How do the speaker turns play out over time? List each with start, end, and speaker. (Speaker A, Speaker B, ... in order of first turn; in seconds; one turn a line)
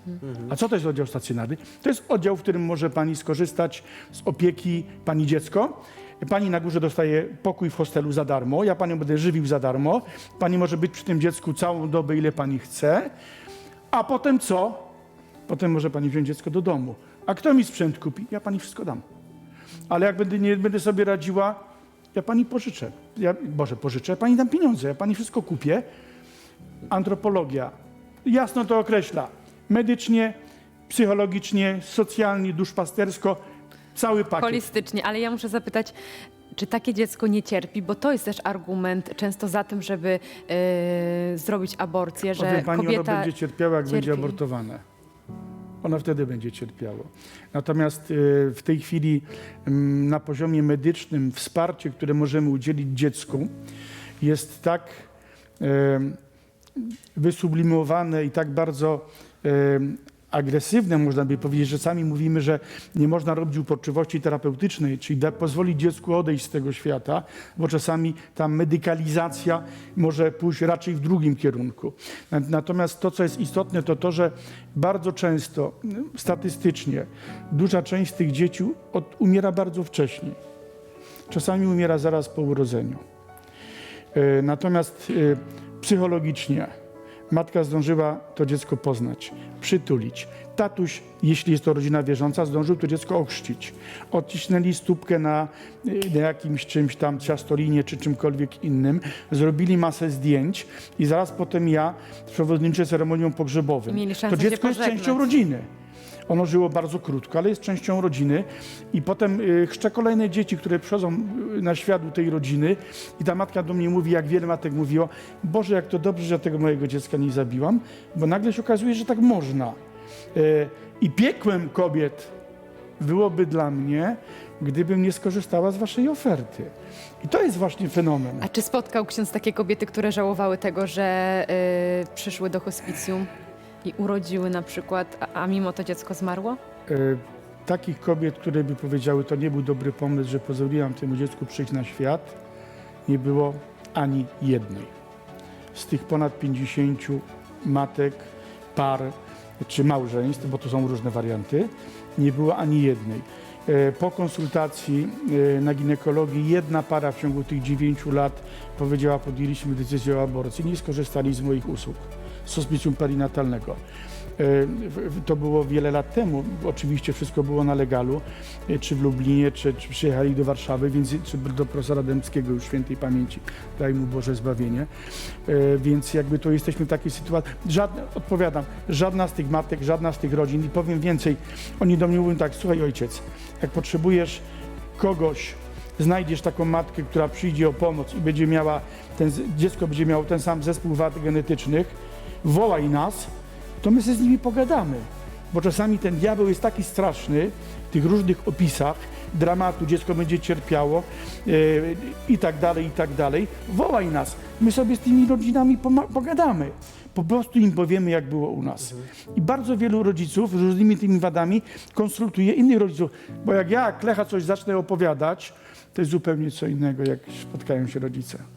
Speaker A: 0.2-13.1
Speaker A: 13.9-14.9
Speaker A: 15.5-19.0
Speaker A: 19.9-25.8
Speaker A: 26.9-27.7
Speaker A: 28.2-30.4
Speaker A: 30.9-33.4
Speaker A: 33.9-34.7
Speaker B: 34.4-35.9
Speaker B: 36.5-43.3
Speaker A: 42.4-44.8
Speaker B: 43.9-44.4
Speaker A: 45.8-53.5
Speaker A: 54.2-55.1
Speaker A: 55.6-56.2
Speaker A: 56.8-80.4
Speaker A: 81.3-83.0
Speaker A: 84.1-86.7
Speaker A: 87.3-105.7
Speaker B: 103.9-105.3
Speaker A: 106.3-119.8
Speaker A: 120.3-122.3
Speaker A: 123.0-128.5
Speaker B: 128.4-133.3
Speaker B: 133.8-136.6
Speaker A: 136.9-142.4
Speaker A: 143.1-144.9
Speaker A: 145.7-163.8
Speaker A: 164.4-184.4
Speaker A: 185.0-193.3
Speaker A: 193.8-218.4